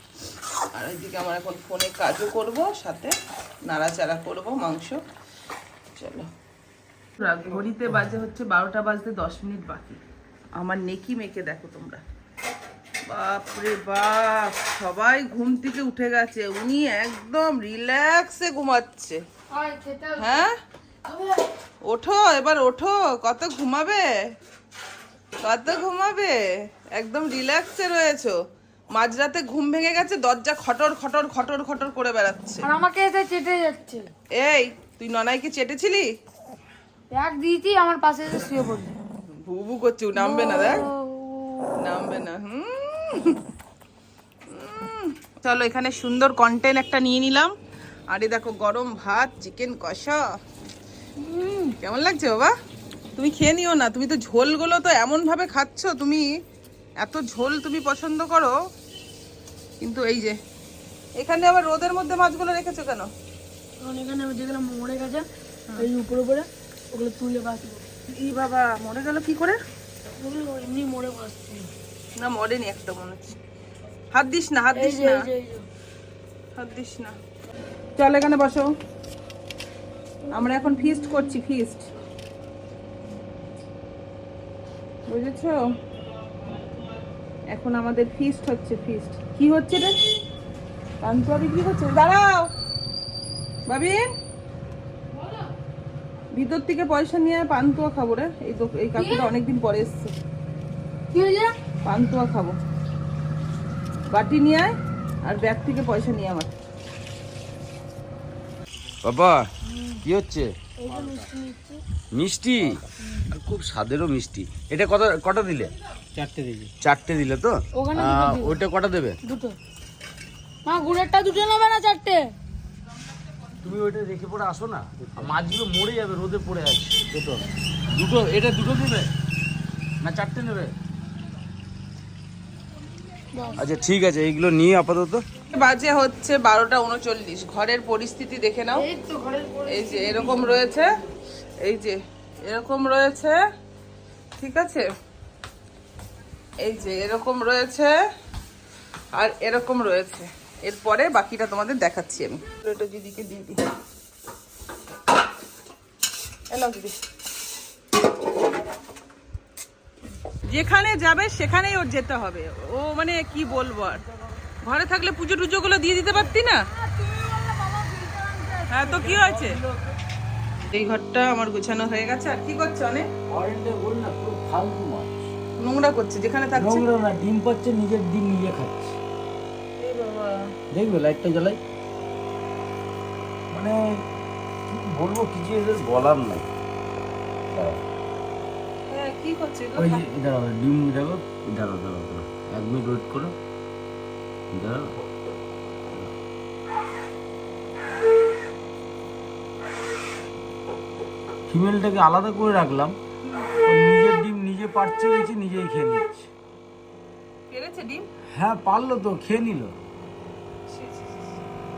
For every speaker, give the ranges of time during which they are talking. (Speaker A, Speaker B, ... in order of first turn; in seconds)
Speaker A: 0.7-3.1, 3.6-5.0, 6.0-6.3, 7.2-10.0, 10.6-12.0, 13.1-19.2, 20.2-20.5, 21.9-24.1, 25.4-26.4, 26.9-28.4, 28.9-32.7, 34.4-36.1, 39.4-40.8, 41.8-43.4, 44.5-47.5, 48.1-50.2, 51.6-52.5, 53.2-56.2, 57.0-58.5, 59.8-60.4, 61.2-63.1, 68.1-69.6, 72.2-73.4, 74.1-75.2, 76.6-77.2, 78.0-78.7, 80.3-81.9, 85.1-85.6, 87.5-90.0, 91.0-92.5, 93.7-94.0, 96.3-100.1, 101.8-102.6, 104.1-106.5, 135.5-138.8, 139.7-140.9, 141.6-143.4, 144.4-144.9, 146.6-147.9, 149.2-153.7, 156.5-157.0, 160.5-164.0, 164.6-166.6, 168.7-169.6, 170.7-173.1, 175.6-176.9, 179.8-180.5, 188.9-190.1, 207.5-208.1, 210.7-211.4
Speaker B: 19.5-20.4, 21.1-21.5, 32.6-34.1, 37.1-39.0, 40.2-41.7, 51.3-51.7, 63.8-67.8, 70.1-71.7, 74.8-75.7, 80.3-81.4, 99.0-99.3, 101.1-101.5, 109.7-110.0, 110.8-111.8, 113.0-113.3, 117.7-118.6, 119.2-119.6, 120.7-122.3, 133.3-133.6, 138.7-141.0, 166.1-169.2
Speaker C: 109.0-109.5, 110.0-111.3, 112.1-119.2, 123.6-129.1, 130.0-130.7, 133.6-135.2, 169.0-169.9, 173.3-175.3, 176.5-179.0, 180.7-181.6, 183.5-183.8, 184.7-186.5, 187.5-187.8, 189.8-193.3, 194.5-194.9, 201.5-203.0, 203.6-206.2, 208.3-209.8